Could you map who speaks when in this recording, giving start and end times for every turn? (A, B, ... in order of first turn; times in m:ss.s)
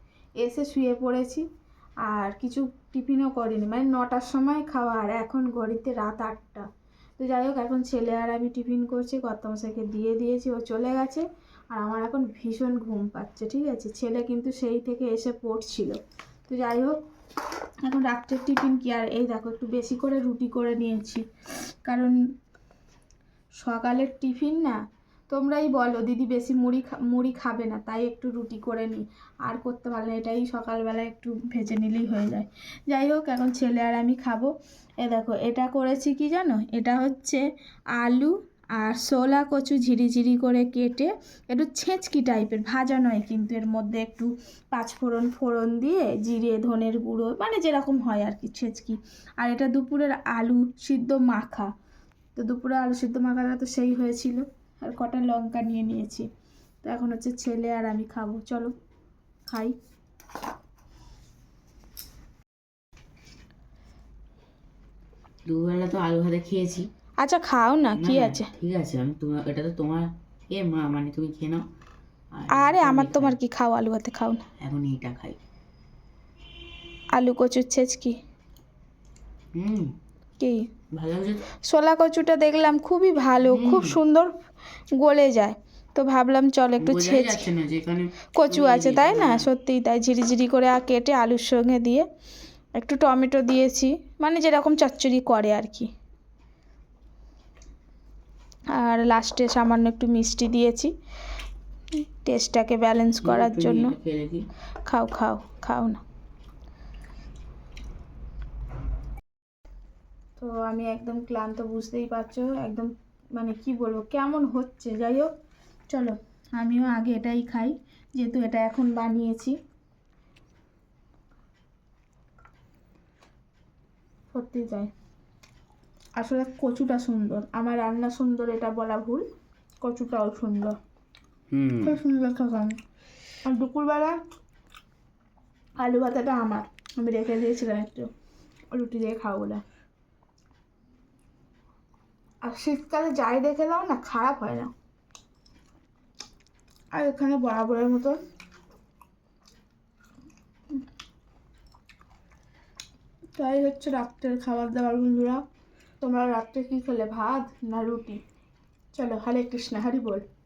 0:00.4-0:01.4 A
0:02.0-0:06.6 A
0:07.2-0:17.0 A
0:17.8-0:21.2 A
0:21.8-0:22.2 A
0:23.6-0:37.4 A
0:38.0-0:51.7 A
0:52.4-0:56.3 A
0:56.8-0:58.7 A
0:59.5-0:59.7 A
1:05.5-1:06.9 B
1:07.2-1:08.5 A
1:07.9-1:11.6 B
1:12.3-1:13.4 B
1:12.5-1:14.4 A
1:14.6-1:15.4 B
1:17.1-1:18.2 A
1:19.5-1:19.9 B
1:20.4-1:20.7 A
1:20.9-1:21.4 B
1:21.6-1:24.3 A
1:23.4-1:24.0 B
1:25.0-1:27.5 A
1:26.8-1:29.5 B
1:28.4-1:32.1 A
1:32.8-1:35.9 A
1:38.7-1:40.9 A
1:42.2-1:44.0 A
1:43.2-1:44.4 B
1:44.8-1:46.0 A
1:50.4-1:55.3 A
1:55.9-1:59.6 A
2:04.3-2:04.9 A
2:06.2-2:09.2 A
2:09.8-2:10.8 A
2:11.5-2:12.0 B
2:11.8-2:12.8 A
2:13.4-2:14.2 A
2:15.8-2:18.1 A
2:18.7-2:19.6 A
2:22.4-2:24.7 A
2:26.9-2:28.2 A
2:33.4-2:35.4 A
2:36.0-2:38.2 A
2:38.9-2:40.2 A